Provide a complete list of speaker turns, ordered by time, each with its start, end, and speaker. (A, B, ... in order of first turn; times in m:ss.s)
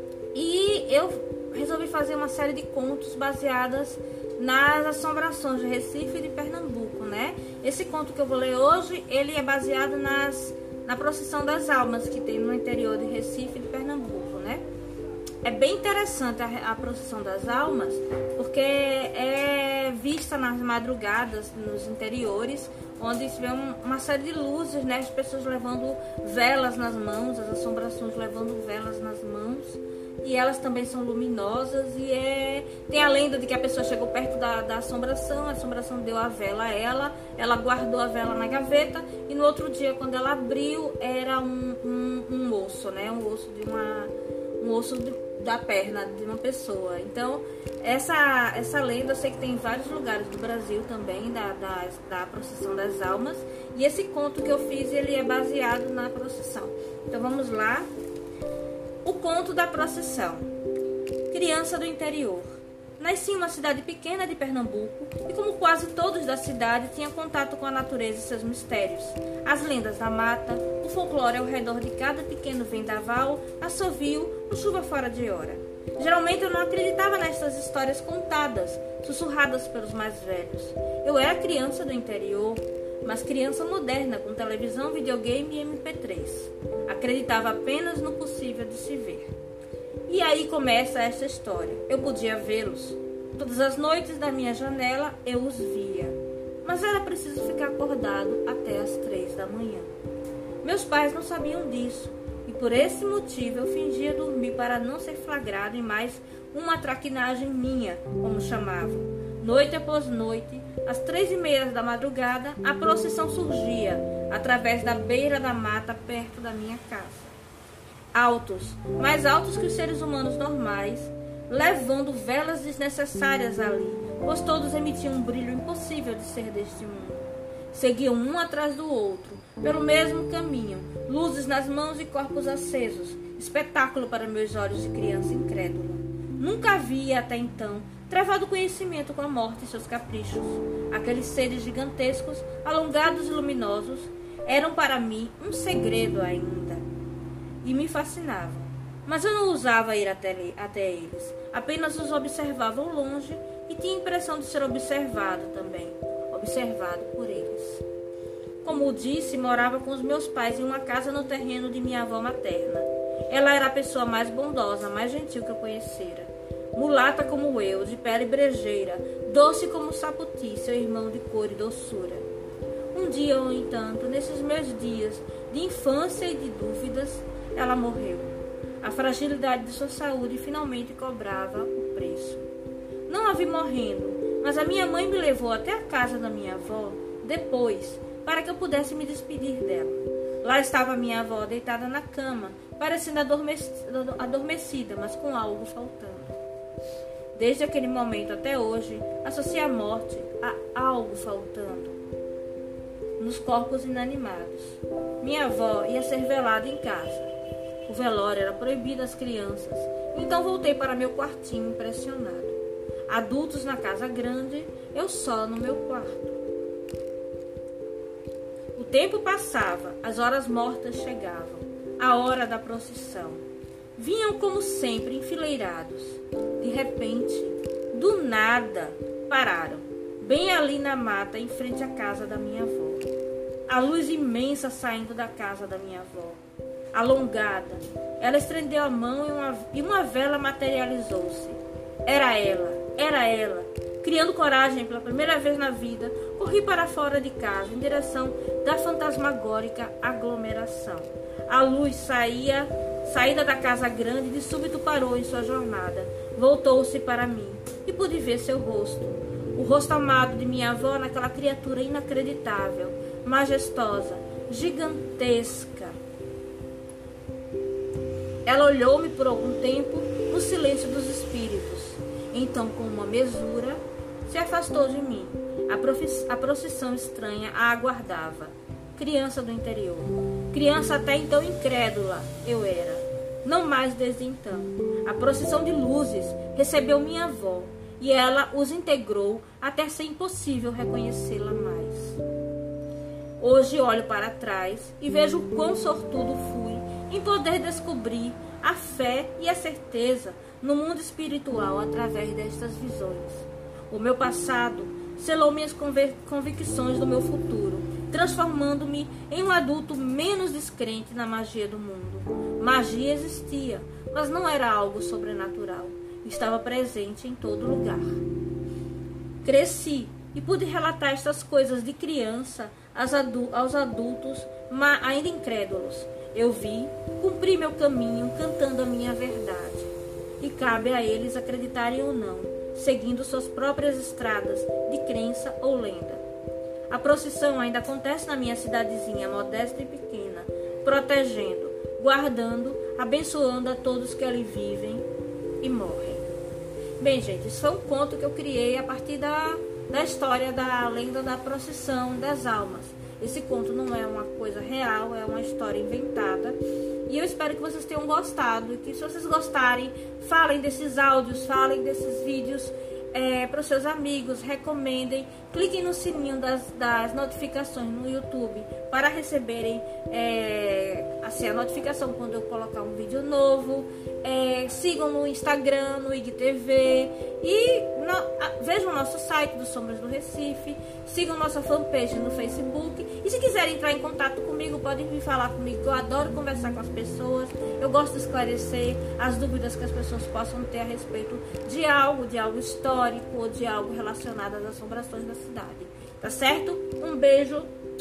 0:00.3-0:14.6 A
0:15.4-0:57.9 A
0:59.0-1:00.5 A
1:01.3-1:29.3 A
1:30.1-1:39.9 A
1:40.6-1:57.3 A
1:58.1-2:26.8 A
2:27.6-2:37.8 A
2:38.6-2:52.2 A
2:52.9-3:02.4 A
3:03.1-3:16.4 A
3:17.3-3:22.0 A
3:23.2-3:27.3 A
3:27.8-3:36.4 A
3:38.7-3:43.4 A
3:44.0-3:53.1 A
3:53.7-3:56.4 A
3:56.9-4:26.0 A
4:28.4-4:52.2 A
4:53.4-5:18.2 A
5:19.4-5:36.2 A
5:36.9-5:45.0 A
5:45.6-5:46.3 A
5:47.0-6:37.7 A